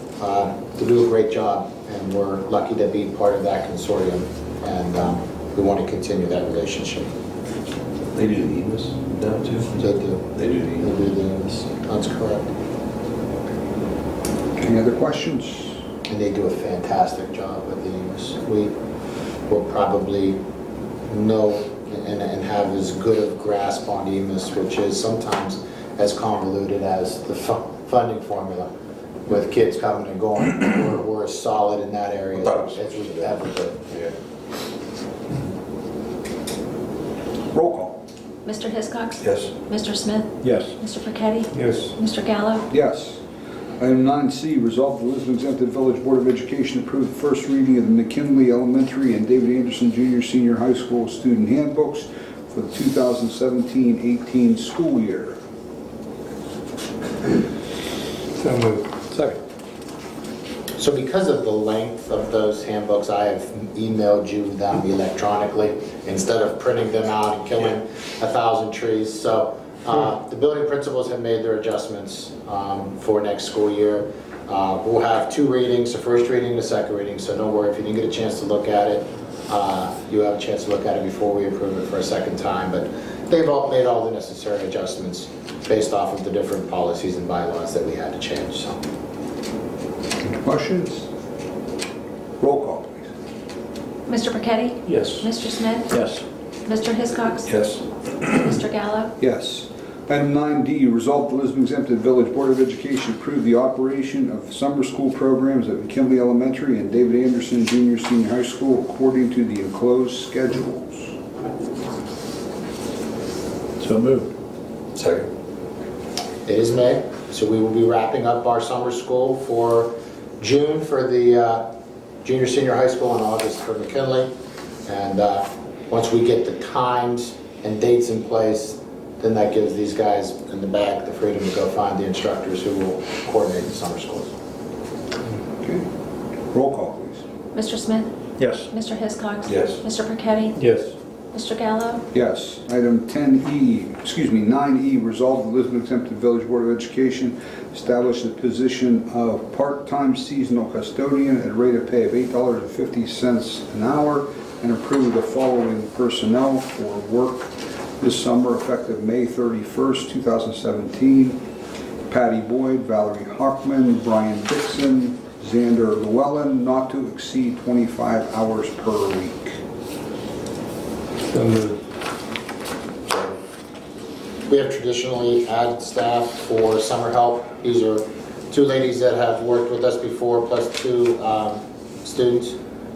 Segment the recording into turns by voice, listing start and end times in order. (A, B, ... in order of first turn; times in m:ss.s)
0:00.2-0:07.1 A
0:08.1-0:09.8 B
0:09.8-0:12.5 A
0:10.3-0:11.0 B
0:14.6-0:15.8 C
0:16.1-0:18.7 A
0:19.5-0:20.4 A
0:21.1-0:28.7 A
0:29.3-0:33.8 A
0:32.4-0:34.1 B
0:37.5-0:38.0 C
0:38.4-0:42.7 D
0:39.2-0:39.5 B
0:41.5-0:41.9 E
0:42.7-0:43.2 C
0:43.8-0:55.4 C
0:58.4-0:59.4 E
1:00.8-1:28.8 A
1:30.3-1:31.1 C
1:32.4-1:33.1 C
1:34.1-1:36.0 D
1:34.9-1:35.2 E
1:36.6-1:37.5 D
1:37.5-1:37.8 B
1:38.2-1:39.1 D
1:39.2-1:51.1 C
1:53.8-1:54.3 B
1:54.9-1:55.3 B
1:56.4-2:01.7 A
2:02.2-2:04.3 A
2:04.8-2:14.3 A
2:15.6-2:15.8 C
2:16.5-2:17.2 C
2:17.5-2:18.1 D
2:18.7-2:20.6 D
2:19.4-2:19.8 B
2:20.6-2:20.9 E
2:21.3-2:22.0 D
2:22.1-2:41.4 C
2:42.1-2:49.6 C
2:51.3-2:51.8 E
2:54.5-3:02.6 A